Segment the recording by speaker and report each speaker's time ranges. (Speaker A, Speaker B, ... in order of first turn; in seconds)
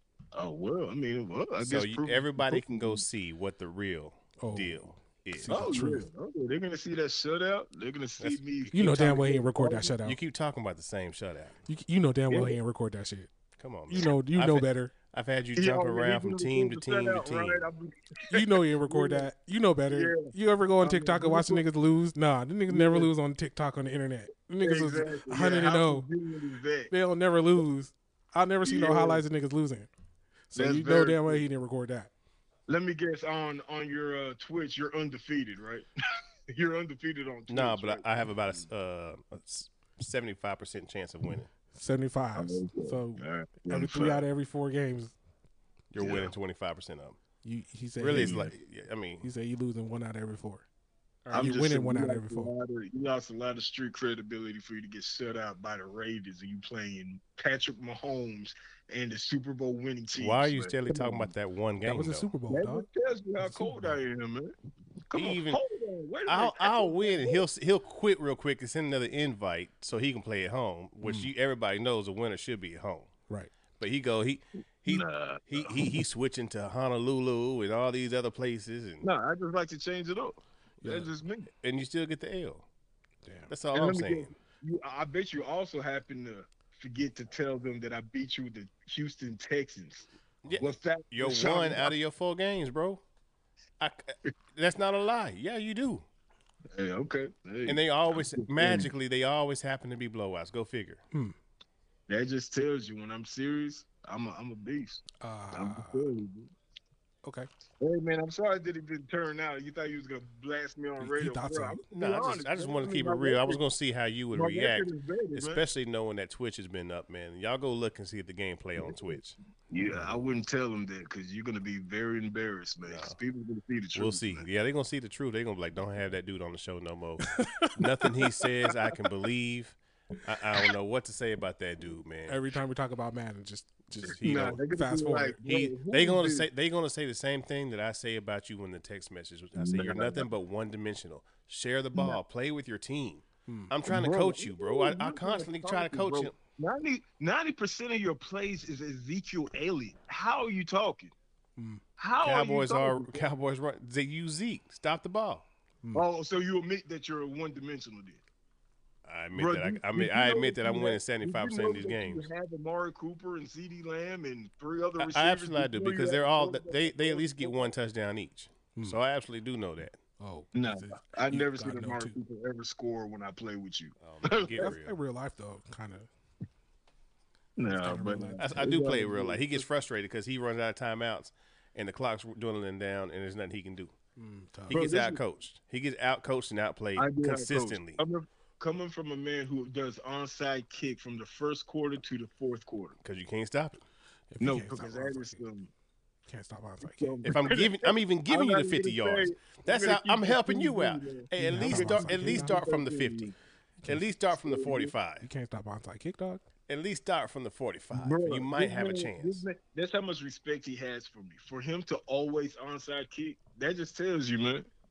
Speaker A: 0.3-3.0, 5.5-9.9, 12.3-12.6, 15.5-19.3, 19.9-21.6, 22.7-23.1, 24.6-26.9, 28.6-29.2, 30.5-31.5, 32.7-35.9, 36.5-38.6, 42.3-44.3, 46.0-46.3, 48.1-48.5, 51.3-61.3, 62.5-64.5, 65.1-67.4, 74.8-75.9, 79.0-81.5, 83.7-92.0, 96.7-98.9, 102.1-106.5, 107.8-113.6, 114.3-115.6, 118.8-119.2, 119.7-124.4, 134.2-136.5, 139.6-140.3, 141.9-142.2, 143.9-151.1, 152.0-153.2, 155.9-158.2, 159.3-167.7, 170.5-174.7, 177.6-179.6, 184.7-185.2, 186.9-193.0, 194.4-195.7, 196.8-203.3, 204.4-204.9, 207.9-214.7
Speaker B: 1.6-5.7, 10.0-11.6, 13.6-17.6, 37.5-41.5, 45.9-47.2, 48.0-49.3, 60.2-62.3, 65.1-65.6, 66.2-73.1, 73.8-79.1, 81.6-82.7, 83.5-84.3, 90.4-93.0, 93.8-96.0, 97.6-101.0, 111.9-120.2, 122.8-123.2, 123.9-132.4, 134.0-134.6, 135.4-146.3, 152.2-155.4, 159.0-162.3, 165.0-170.0, 174.0-174.9, 178.4-183.9, 184.7-188.0, 193.0-193.8, 197.2-203.3, 203.9-205.3, 206.7-209.4
Speaker C: 4.4-6.1, 8.7-10.2, 11.7-13.3, 13.9-14.9, 18.3-26.0, 26.9-29.9, 30.5-32.1, 41.7-45.1, 47.4-48.6, 49.2-50.6, 51.2-52.5, 61.8-62.9, 63.4-64.0, 71.0-71.3, 80.8-81.1, 83.2-83.5, 105.2-106.1, 107.2-107.5, 111.0-111.8, 127.2-128.5, 132.3-135.4, 143.5-143.8, 151.6-151.8, 170.2-172.1, 174.6-176.1, 177.6-178.6, 184.2-184.8, 194.3-195.4, 196.3-197.2, 201.3-202.5, 203.8-204.2, 205.1-206.4